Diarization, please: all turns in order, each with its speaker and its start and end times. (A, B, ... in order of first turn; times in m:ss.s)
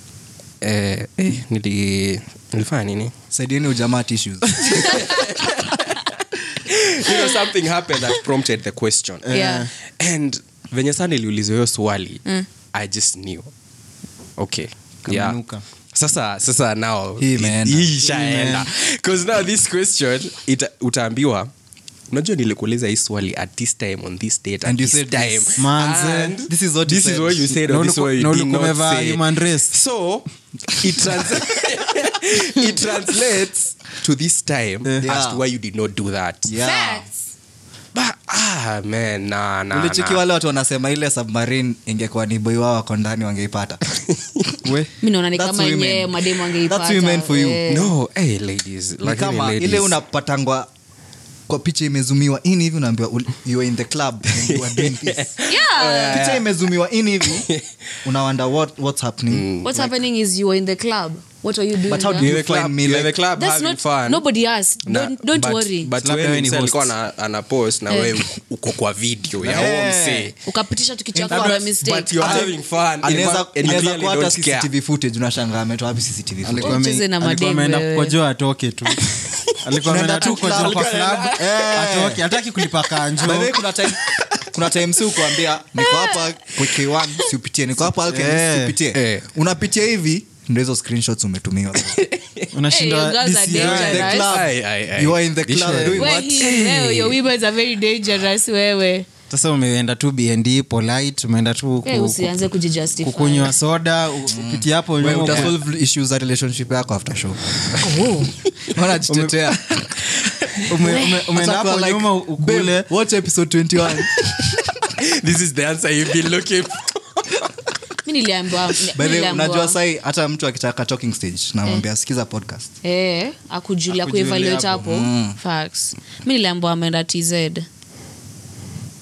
0:00.6-0:03.1 A
0:03.3-0:05.1 B
0:04.7-0:09.3 A
0:04.8-0:05.1 C
0:07.0-0:07.4 C
0:09.3-0:09.7 D
0:09.3-0:09.7 C
0:09.9-0:13.5 A
0:14.4-0:15.4 A
0:15.0-0:15.6 D
0:15.9-0:21.5 A
0:17.2-0:17.9 B
0:18.0-0:18.7 D
0:22.1-0:36.5 A
0:24.6-0:25.6 B
0:25.6-0:26.4 D
0:26.4-0:27.6 B
0:27.6-0:29.8 D
0:35.0-0:35.4 B
0:36.5-0:37.1 B
0:36.6-0:37.2 C
0:37.9-0:40.2 A
0:39.7-0:43.8 B
0:44.0-0:44.3 A
0:44.6-0:44.9 D
0:45.0-0:47.9 C
0:45.3-0:47.6 B
0:47.7-0:50.0 A
0:49.0-0:50.7 B
0:51.5-0:55.4 B
0:54.4-0:56.5 A
0:55.4-0:56.2 C
0:56.1-0:57.5 B
0:57.3-0:57.6 A
0:58.0-0:59.5 B
0:59.3-0:59.9 A
0:59.6-1:02.3 C
1:01.9-1:03.2 B
1:02.2-1:04.2 A
1:03.4-1:05.9 C
1:04.9-1:10.4 A
1:06.0-1:06.9 D
1:07.9-1:08.2 C
1:09.4-1:10.3 B
1:10.4-1:12.5 C
1:11.1-1:16.8 B
1:11.3-1:14.7 A
1:16.4-1:23.6 D
1:16.6-1:18.2 C
1:19.8-1:22.2 B
1:20.1-1:21.7 A
1:23.2-1:32.0 B
1:25.8-1:26.3 C
1:28.0-1:28.7 D
1:28.9-1:29.3 A
1:31.9-1:32.5 A
1:32.5-1:34.1 D
1:32.7-1:34.3 C
1:33.5-1:36.4 B
1:33.9-1:37.2 A
1:35.9-1:39.1 C
1:39.3-1:42.3 D
1:41.8-1:43.6 C
1:43.0-1:45.6 D
1:44.3-1:47.4 B
1:47.8-1:48.4 C
1:48.7-1:50.0 B
1:49.1-1:49.5 D
1:50.7-1:52.9 D
1:50.9-1:54.1 B
1:54.9-1:57.5 A
1:58.0-1:59.8 C
1:58.9-2:02.7 B
2:02.8-2:07.7 C
2:03.9-2:04.9 D
2:04.9-2:05.4 B